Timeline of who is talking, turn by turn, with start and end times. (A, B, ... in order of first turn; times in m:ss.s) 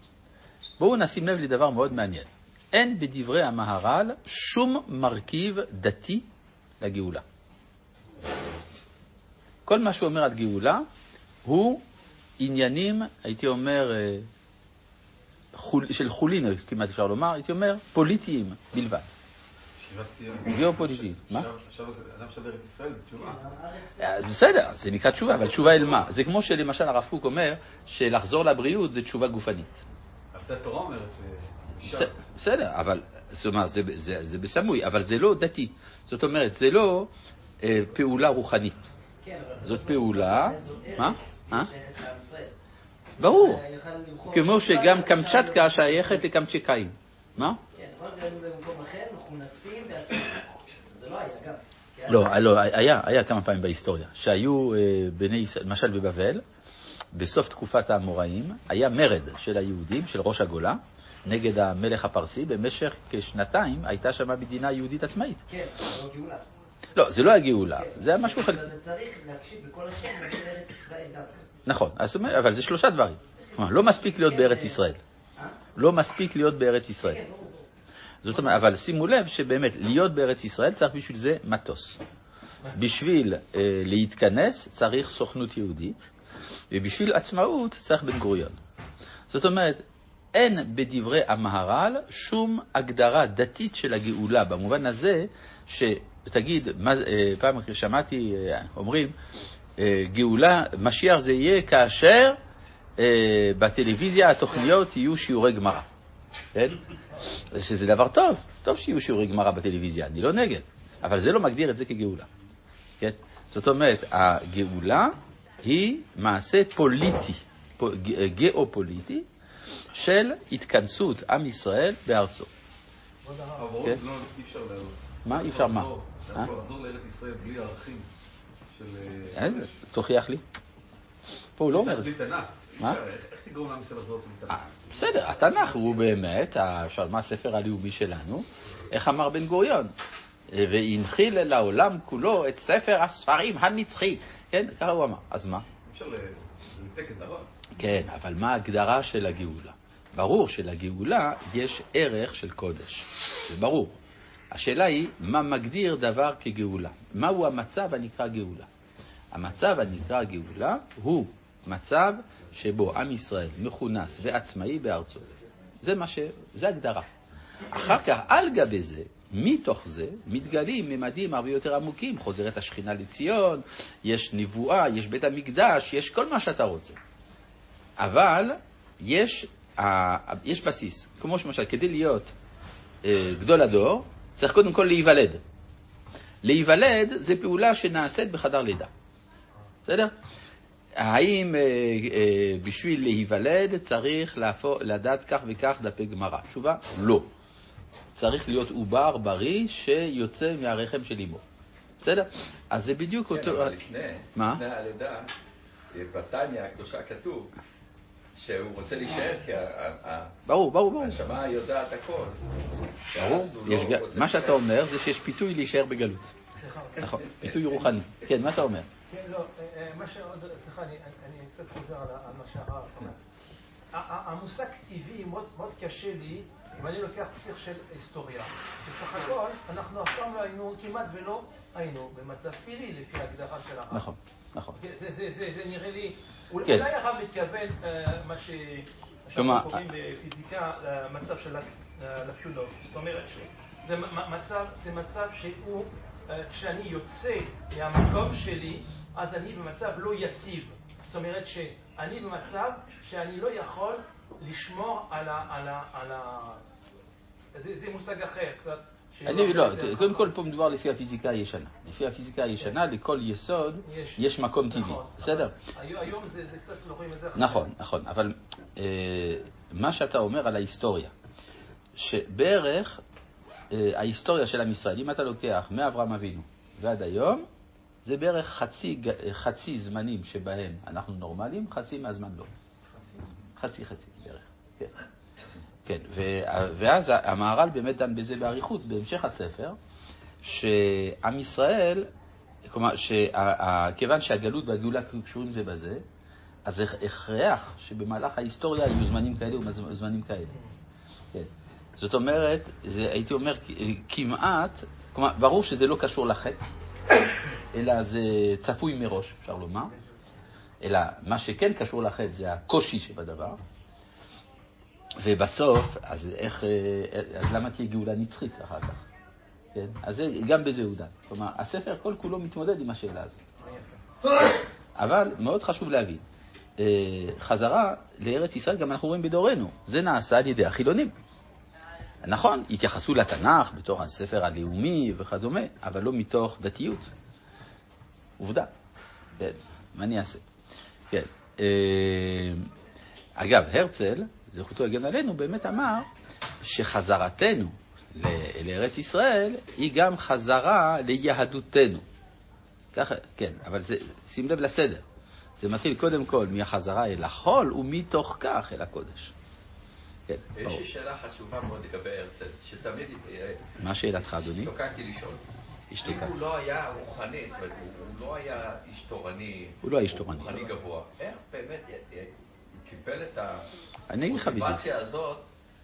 0:00.8-0:06.2 A
0:06.8-0:07.2 A
0:09.6-0:10.8 A
0:11.4-0:11.8 A
0:12.4-0:14.3 A
0:15.5-0:19.1 A
0:19.8-0:23.4 B
0:20.5-0:21.5 A
0:23.2-0:24.1 C
0:24.0-0:29.7 A
0:30.3-0:32.1 B
0:31.9-0:37.1 A
0:37.6-0:38.8 A
0:39.2-0:42.5 C
0:39.6-0:41.7 A
0:43.2-0:43.6 A
0:43.2-0:46.3 C
0:44.3-0:47.6 A
0:47.7-0:52.3 C
0:52.1-0:56.4 A
0:57.1-1:05.4 A
1:05.5-1:06.4 C
1:06.9-1:08.6 A
1:07.8-1:11.4 C
1:11.6-1:15.0 A
1:13.4-1:14.8 C
1:15.7-1:17.2 A
1:17.0-1:17.6 C
1:18.2-1:22.0 A
1:22.7-1:26.1 A
1:26.7-1:28.6 A
1:29.3-1:29.8 A
1:30.3-1:39.1 A
1:39.8-1:42.4 A
1:43.0-1:45.8 A
1:46.5-1:46.8 A
1:47.5-1:52.3 A
1:53.0-1:59.2 A
1:59.9-2:02.5 A
2:03.2-2:03.7 D
2:03.6-2:08.1 B
2:05.2-2:06.5 A
2:08.7-2:09.7 B
2:09.3-2:10.4 A
2:11.6-2:12.1 A
2:11.7-2:14.6 B
2:14.5-2:19.9 A
2:20.5-2:25.6 A
2:25.8-2:27.5 B
2:27.8-2:34.0 A
2:34.5-2:38.7 A
2:39.3-2:45.3 A
2:45.8-2:47.1 A
2:47.7-2:57.0 A
2:58.0-3:02.3 A
3:03.0-3:05.4 A
3:06.4-3:08.9 A
3:09.8-3:10.1 A
3:11.0-3:17.3 A
3:18.2-3:21.4 A
3:22.0-3:23.7 A
3:23.3-3:25.3 E
3:24.3-3:24.6 A
3:25.9-3:27.5 E
3:28.4-3:30.3 E
3:30.5-3:31.3 A
3:31.0-3:32.4 E
3:33.1-3:34.6 E
3:33.1-3:36.3 A
3:36.6-3:37.2 D
3:37.0-3:38.9 A
3:39.1-3:43.2 D
3:43.9-3:54.1 D
3:53.9-3:54.8 A
3:54.8-4:16.6 D
3:59.3-3:59.9 A
4:17.5-4:20.3 D
4:19.2-4:25.5 A
4:23.8-4:27.7 D
4:27.4-4:31.1 A
4:32.0-4:33.0 A
4:33.7-4:37.4 A
4:38.0-4:42.5 A
4:43.6-4:44.9 A
4:45.8-4:49.8 A
4:50.4-4:52.1 A
4:52.7-4:56.0 A
4:56.6-5:00.6 A
5:01.3-5:06.6 A
5:07.7-5:09.9 A
5:10.8-5:13.6 A
5:15.2-5:19.0 A
5:19.7-5:23.4 A
5:23.6-5:24.0 D
5:25.0-5:26.2 A
5:26.8-5:31.1 A
5:32.2-5:37.1 A
5:38.4-5:38.7 A
5:39.4-5:40.4 A
5:41.1-5:42.7 A
5:43.4-5:46.1 A
5:46.6-5:52.0 A
5:52.9-5:55.0 A
5:55.6-5:59.3 A
6:00.3-6:00.8 A
6:00.5-6:03.6 E
6:03.8-6:04.7 A
6:04.6-6:05.4 E
6:05.9-6:06.3 A
6:06.0-6:13.6 E
6:09.8-6:10.7 A
6:14.1-6:14.8 A
6:14.2-6:15.4 E